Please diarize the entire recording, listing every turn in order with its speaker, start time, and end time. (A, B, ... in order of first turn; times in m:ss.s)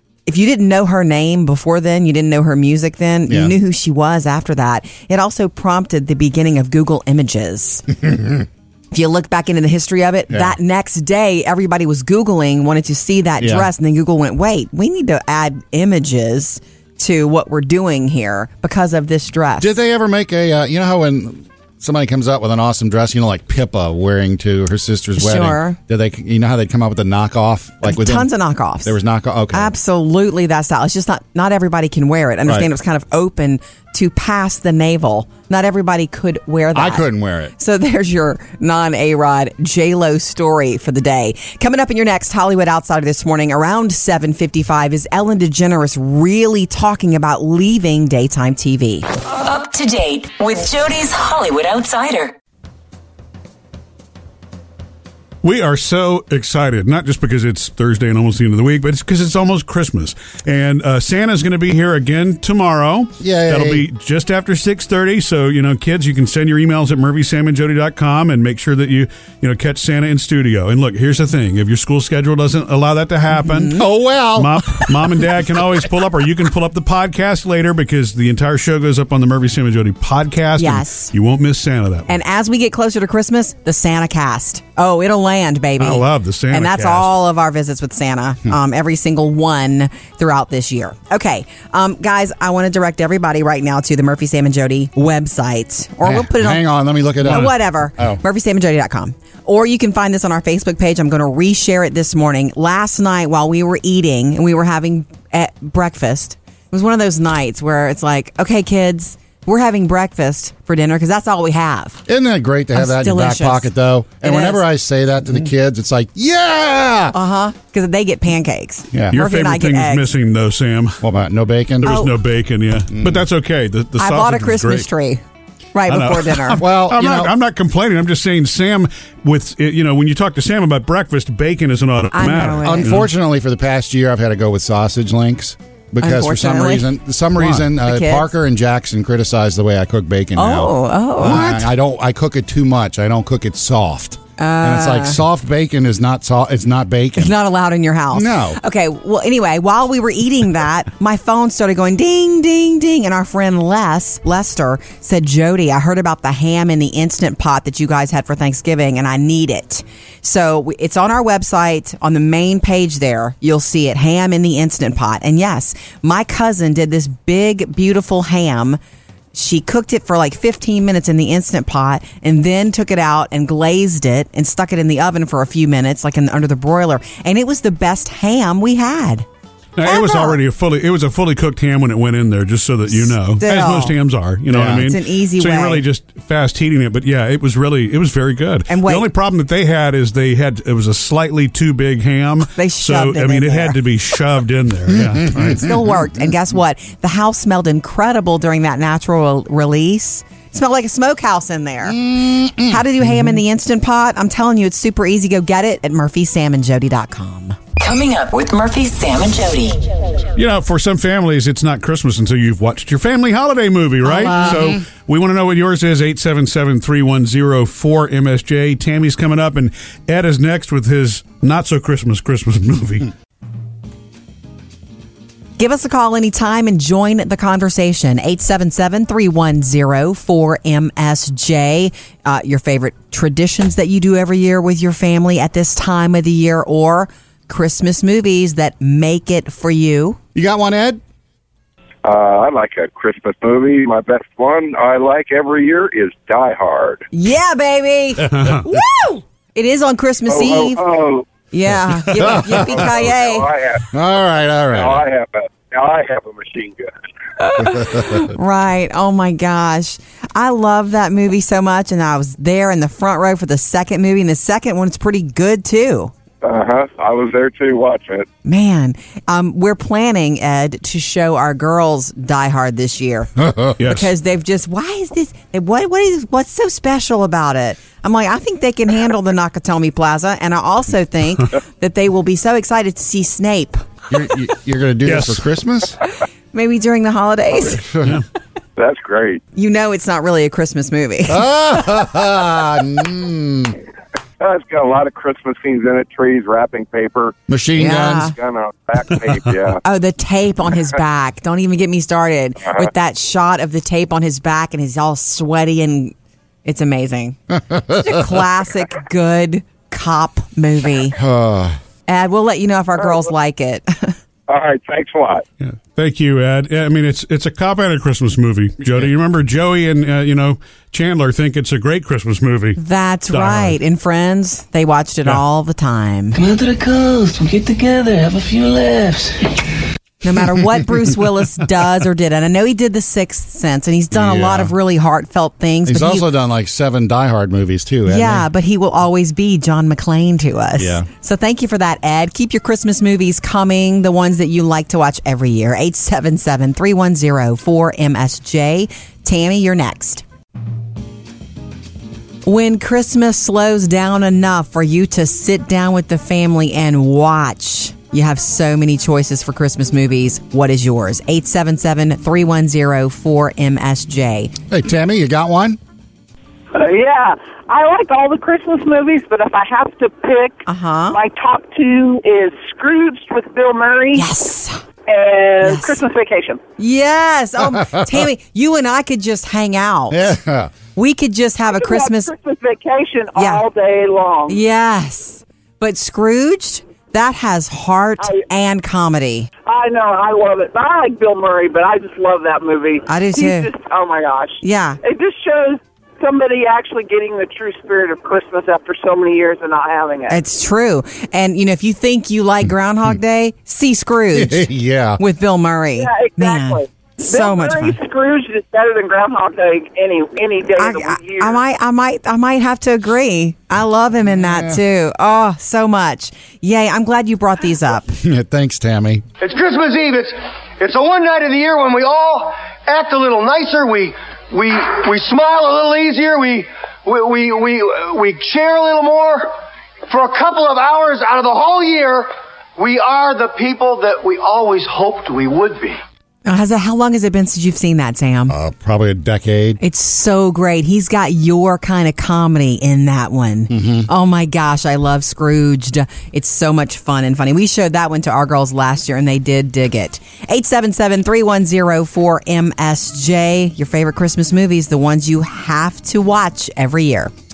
0:00.2-0:07.9 A
0:03.3-0:03.5 B
0:08.0-0:08.3 B
0:08.9-0:19.7 A
0:10.3-0:10.6 B
0:13.4-0:13.7 B
0:19.6-0:28.3 B
0:25.2-0:25.8 A
0:27.8-0:29.0 A
0:28.8-0:29.7 B
0:29.5-0:49.0 A
0:36.7-0:37.5 B
0:49.2-0:52.3 C
0:55.4-1:22.1 D
1:03.2-1:03.8 B
1:13.3-1:13.8 A
1:13.8-1:15.1 B
1:20.6-1:21.1 A
1:22.1-1:36.6 A
1:25.8-1:27.1 D
1:36.0-1:38.2 B
1:37.2-1:52.0 A
1:52.1-1:57.2 B
1:52.7-1:54.6 A
1:57.1-2:00.1 A
1:59.1-2:01.0 D
2:01.0-2:02.0 B
2:01.8-2:04.9 D
2:01.8-2:02.1 A
2:02.9-2:03.2 B
2:04.0-2:05.2 A
2:05.7-2:06.6 A
2:05.9-2:13.1 D
2:06.6-2:07.3 B
2:12.1-2:12.9 A
2:12.6-2:27.3 B
2:16.0-2:16.9 A
2:17.8-2:18.3 A
2:20.4-2:21.6 A
2:24.4-2:25.2 A
2:27.2-2:48.8 A
2:28.1-2:28.6 B
2:49.3-2:59.2 A
2:59.8-3:15.7 D
2:59.8-3:00.4 A
3:02.9-3:03.9 A
3:04.5-3:04.8 B
3:04.7-3:05.8 A
3:08.7-3:09.1 A
3:12.6-3:13.8 A
3:15.4-3:22.0 A
3:21.9-3:23.3 B
3:22.5-3:27.6 A
3:27.8-3:29.8 C
3:30.4-3:43.1 D
3:34.0-3:34.7 A
3:45.6-4:00.2 A
4:00.3-4:01.0 B
4:02.0-4:07.1 E
4:07.1-4:10.8 A
4:08.3-4:08.6 D
4:10.3-4:11.2 E
4:11.5-4:13.4 A
4:12.1-4:12.8 B
4:12.5-4:13.9 E
4:13.9-4:15.0 B
4:14.7-4:16.9 E
4:17.4-4:26.1 A
4:17.6-4:18.3 B
4:26.4-4:28.3 E
4:28.4-4:43.8 A
4:33.4-4:33.8 B
4:33.8-4:34.1 D
4:44.1-4:46.0 B
4:45.0-4:45.4 D
4:46.5-4:47.8 A
4:47.6-4:48.2 B
4:48.8-4:49.4 E
4:49.6-4:51.5 A
4:51.3-4:53.8 B
4:54.4-4:59.8 E
4:57.5-4:58.3 B
4:57.8-4:58.3 A
4:59.8-5:07.4 A
5:07.5-5:08.3 B
5:08.0-5:11.2 A
5:11.1-5:11.8 B
5:12.1-5:14.2 A
5:14.5-5:15.4 E
5:15.6-5:22.8 D
5:22.8-5:26.4 A
5:23.3-5:23.8 D
5:26.4-5:29.5 F
5:30.2-5:36.3 A
5:34.1-5:34.7 B
5:35.8-5:38.5 B
5:38.0-5:50.2 A
5:40.8-5:41.1 B
5:52.4-6:04.5 A
6:04.7-6:05.8 B
6:06.7-6:14.3 G
6:10.6-6:11.2 A
6:14.1-6:14.8 A
6:15.1-6:16.6 G
6:15.6-6:16.0 A
6:16.8-6:20.3 A
6:17.7-6:18.2 B
6:20.1-6:20.7 B
6:20.9-6:22.3 A
6:21.7-6:24.6 G
6:23.4-6:23.6 A
6:24.5-6:29.5 A
6:29.6-6:40.4 G
6:33.1-6:33.7 A
6:34.6-6:35.0 A
6:40.3-6:48.0 A
6:44.3-6:45.2 B
6:46.0-6:51.6 G
6:50.8-6:58.2 A
6:54.4-6:54.8 B
6:58.2-6:59.2 B
6:59.4-7:09.6 H
7:10.1-7:16.0 H
7:16.4-7:18.6 A
7:18.5-7:19.8 B
7:19.8-7:37.3 A
7:23.7-7:24.1 B